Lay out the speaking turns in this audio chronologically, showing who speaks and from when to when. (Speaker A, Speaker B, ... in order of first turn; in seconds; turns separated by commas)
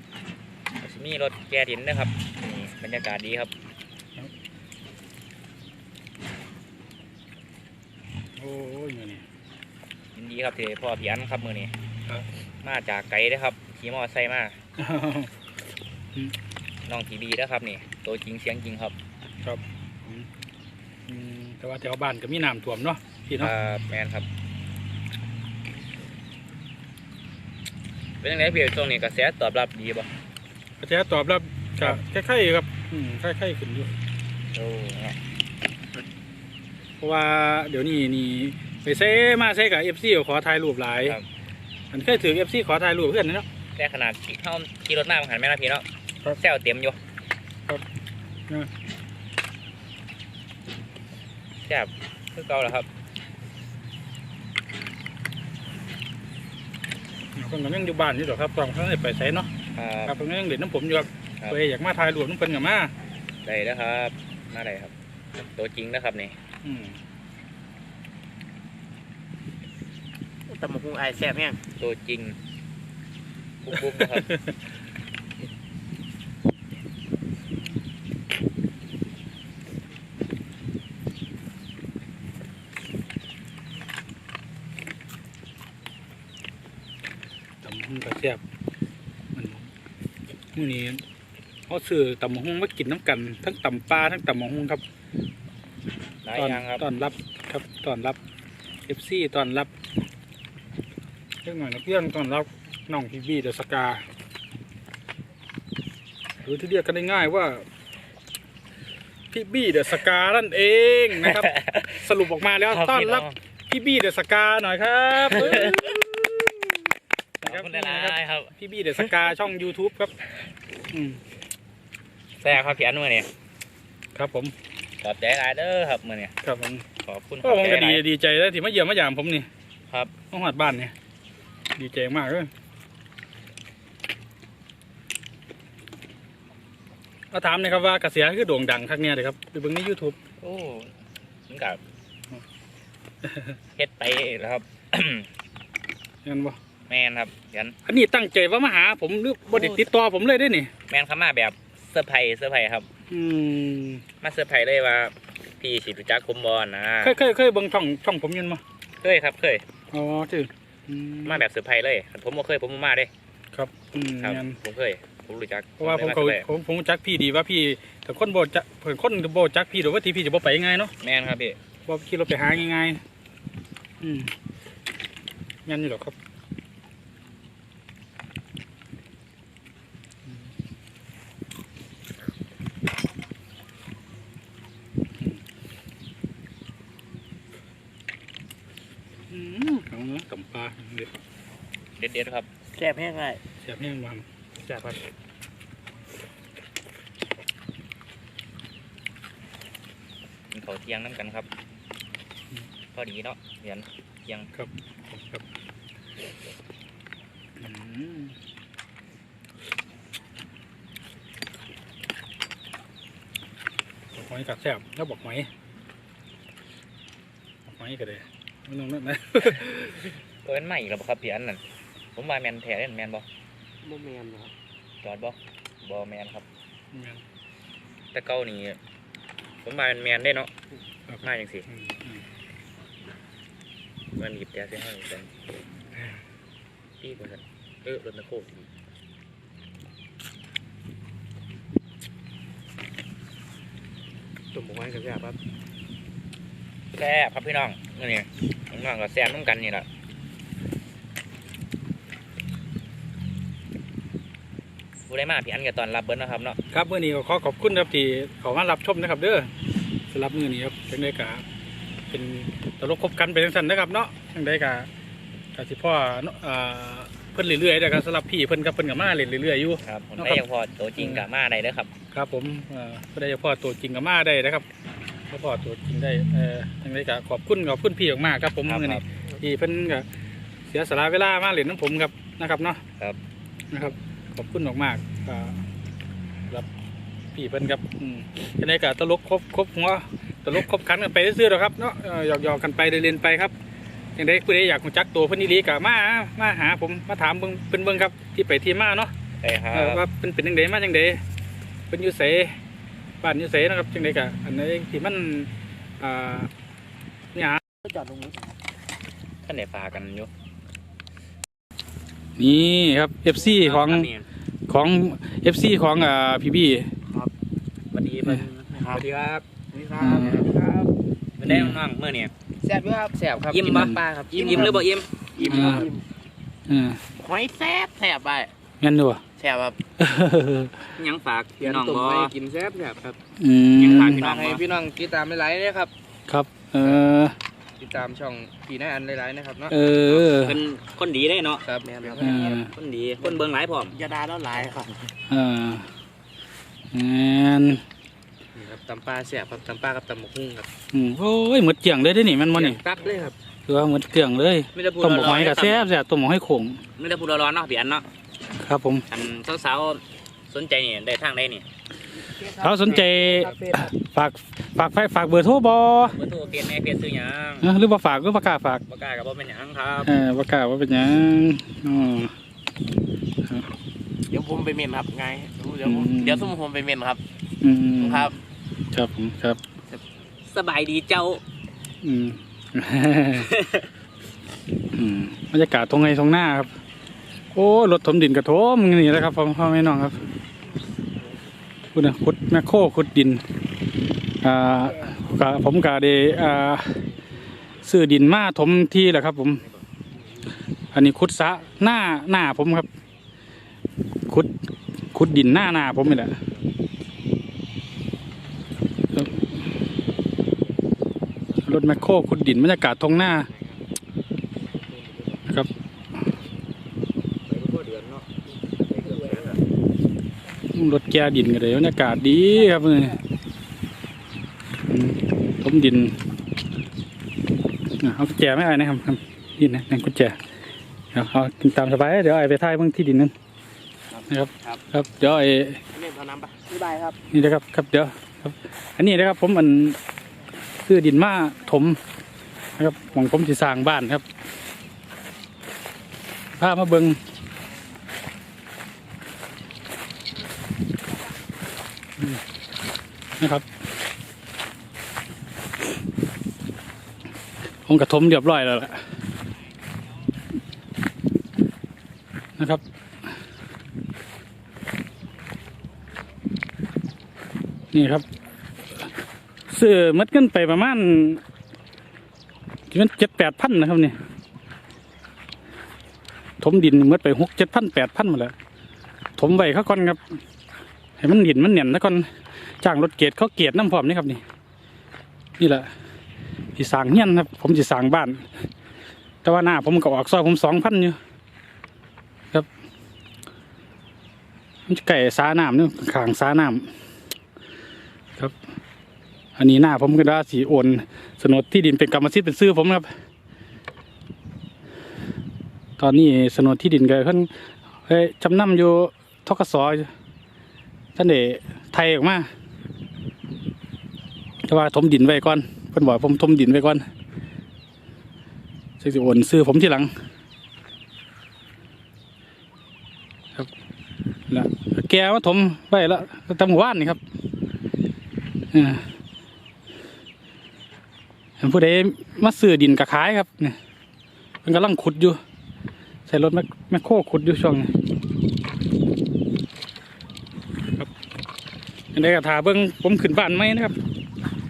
Speaker A: 0.8-3.5, Speaker B: 8.4-9.2, Speaker A: 10.1-11.7, Speaker A: 12.6-14.6, Speaker B: 14.8-15.3, Speaker A: 16.9-18.9, Speaker B: 19.4-20.3, Speaker B: 21.1-23.5, Speaker A: 23.4-24.3, Speaker A: 28.2-30.1, Speaker B: 30.8-33.9, Speaker A: 34.5-35.2, Speaker B: 37.0-41.2, Speaker B: 41.9-43.5, Speaker A: 43.8-45.8, Speaker A: 46.4-47.0, Speaker A: 51.6-52.9, Speaker B: 57.3-59.5, Speaker A: 59.7-60.1, Speaker B: 60.0-62.9, Speaker A: 63.4-66.3, Speaker B: 66.6-67.0, Speaker C: 70.5-71.6, Speaker A: 71.8-72.4, Speaker A: 73.6-74.3, Speaker B: 73.7-74.5, Speaker B: 87.6-88.4, Speaker B: 89.3-89.7, Speaker B: 90.5-91.0, Speaker B: 91.7-94.8, Speaker A: 96.2-96.8, Speaker B: 96.3-98.2, Speaker B: 98.8-99.7, Speaker B: 101.4-104.0, Speaker B: 106.4-107.7, Speaker B: 109.3-116.3, Speaker A: 111.2-112.0, Speaker A: 112.7-113.3, Speaker A: 115.2-116.0, Speaker B: 117.4-120.1, Speaker A: 117.4-118.5, Speaker B: 120.9-121.2, Speaker A: 122.4-123.3, Speaker B: 124.1-124.5, Speaker A: 125.0-126.3, Speaker B: 126.4-126.8, Speaker A: 127.0-128.0, Speaker B: 127.4-129.5, Speaker B: 130.3-130.9, Speaker B: 131.7-132.5, Speaker B: 137.3-140.2, Speaker A: 140.4-140.9, Speaker A: 141.5-141.8, Speaker B: 143.2-143.6, Speaker A: 143.8-145.3, Speaker B: 146.2-146.6, Speaker A: 146.9-147.8, Speaker B: 147.8-150.7, Speaker A: 149.5-149.8, Speaker A: 150.9-152.9, Speaker B: 153.1-154.0, Speaker A: 154.2-157.1, Speaker B: 157.0-158.6, Speaker A: 159.0-159.6, Speaker B: 159.9-161.4, Speaker A: 161.2-163.1, Speaker B: 163.5-164.6, Speaker A: 164.2-166.4, Speaker B: 165.8-170.9, Speaker A: 171.0-171.6, Speaker B: 171.9-173.0, Speaker B: 174.0-174.3, Speaker B: 175.7-176.1, Speaker B: 189.3-191.2, Speaker A: 192.0-192.5, Speaker C: 192.7-193.4, Speaker B: 193.6-194.2, Speaker C: 194.6-195.0, Speaker A: 200.5-201.5, Speaker A: 202.9-204.5, Speaker B: 204.5-205.4, Speaker B: 207.6-208.3, Speaker B: 214.1-215.5, Speaker B: 217.7-220.1, Speaker A: 220.4-221.6, Speaker A: 222.1-223.2, Speaker C: 223.8-224.5, Speaker A: 225.0-226.4, Speaker B: 226.9-227.2, Speaker A: 228.1-228.8, Speaker A: 229.6-230.5, Speaker B: 231.1-232.2, Speaker A: 231.2-231.7, Speaker A: 234.2-235.3, Speaker A: 237.0-238.7, Speaker C: 244.5-245.4, Speaker A: 246.9-249.9, Speaker A: 255.1-256.6, Speaker B: 256.7-259.5, Speaker B: 260.1-261.4, Speaker B: 262.1-264.9, Speaker B: 265.5-270.4, Speaker A: 269.8-271.9, Speaker B: 271.0-271.2, Speaker B: 272.1-274.6, Speaker B: 275.3-280.0, Speaker A: 278.6-279.0, Speaker B: 280.6-282.8, Speaker B: 283.7-285.6, Speaker B: 287.3-293.5, Speaker B: 294.1-299.1, Speaker A: 299.4-300.0, Speaker B: 299.7-301.2, Speaker B: 301.9-302.6, Speaker B: 303.2-306.5, Speaker B: 307.3-307.6, Speaker C: 307.8-308.5, Speaker A: 309.4-310.3, Speaker B: 312.4-314.1, Speaker A: 313.4-314.2, Speaker B: 314.7-316.9, Speaker A: 317.9-319.4, Speaker C: 318.7-320.9, Speaker B: 319.9-320.5, Speaker A: 321.4-322.3, Speaker B: 321.4-321.8, Speaker C: 322.6-326.0, Speaker A: 323.5-325.8, Speaker B: 323.6-324.8, Speaker B: 325.4-325.9, Speaker B: 326.7-327.0, Speaker C: 327.1-328.5, Speaker B: 328.8-329.2, Speaker C: 329.4-329.8, Speaker B: 330.0-330.7, Speaker A: 330.9-332.3, Speaker C: 331.6-333.2, Speaker B: 333.4-334.2, Speaker A: 333.8-334.6, Speaker C: 333.8-335.9, Speaker B: 336.3-337.4, Speaker C: 337.8-339.7, Speaker B: 339.7-340.6, Speaker A: 340.1-344.0, Speaker C: 341.6-342.6, Speaker B: 342.2-342.7, Speaker C: 343.2-345.1, Speaker B: 345.3-345.9, Speaker B: 346.9-347.8, Speaker C: 348.5-350.7, Speaker B: 350.9-352.8, Speaker C: 352.5-353.3, Speaker B: 353.6-356.8, Speaker A: 354.7-355.9, Speaker A: 356.9-358.1, Speaker B: 358.6-359.0, Speaker A: 359.1-361.6, Speaker D: 362.4-363.9, Speaker B: 362.6-366.2, Speaker A: 366.0-367.7, Speaker B: 367.6-368.8, Speaker A: 368.9-370.1, Speaker B: 370.0-372.3, Speaker C: 374.3-377.2, Speaker B: 375.8-376.5, Speaker B: 377.6-378.3, Speaker C: 378.0-378.3, Speaker B: 378.9-379.6, Speaker A: 380.4-381.4, Speaker B: 382.0-383.5, Speaker A: 383.4-383.9, Speaker B: 384.9-386.7, Speaker B: 387.5-390.2, Speaker B: 391.9-393.4, Speaker B: 394.4-397.0, Speaker B: 397.8-399.6, Speaker B: 400.9-402.9, Speaker B: 404.3-404.5, Speaker B: 405.1-406.4, Speaker B: 409.1-409.5, Speaker B: 411.6-413.5, Speaker A: 413.5-413.8, Speaker C: 414.9-415.4, Speaker A: 417.4-419.6, Speaker C: 419.0-419.6, Speaker B: 420.7-423.2, Speaker D: 422.6-423.1, Speaker B: 424.9-426.2, Speaker B: 428.0-430.4, Speaker B: 431.1-433.3, Speaker C: 434.2-434.8, Speaker B: 434.3-435.8, Speaker C: 435.9-436.5, Speaker D: 436.7-437.2, Speaker B: 437.3-440.0, Speaker B: 440.8-442.0, Speaker B: 442.8-444.2, Speaker B: 446.6-447.2, Speaker B: 453.4-453.6, Speaker B: 457.9-459.0, Speaker B: 467.9-468.2, Speaker B: 469.7-471.4, Speaker B: 472.9-474.2, Speaker B: 476.6-478.5, Speaker B: 479.4-480.4, Speaker B: 481.2-482.3, Speaker B: 482.8-484.4, Speaker B: 485.6-485.9, Speaker B: 486.8-488.5, Speaker B: 489.4-491.2, Speaker B: 494.9-496.9, Speaker B: 499.6-503.1, Speaker B: 506.0-507.5, Speaker B: 508.1-510.1, Speaker B: 511.1-512.5, Speaker B: 514.6-517.0, Speaker B: 519.0-520.1, Speaker B: 524.5-527.2, Speaker B: 528.7-529.1, Speaker B: 531.6-533.8, Speaker B: 534.6-535.4, Speaker B: 536.3-537.9, Speaker B: 542.1-544.0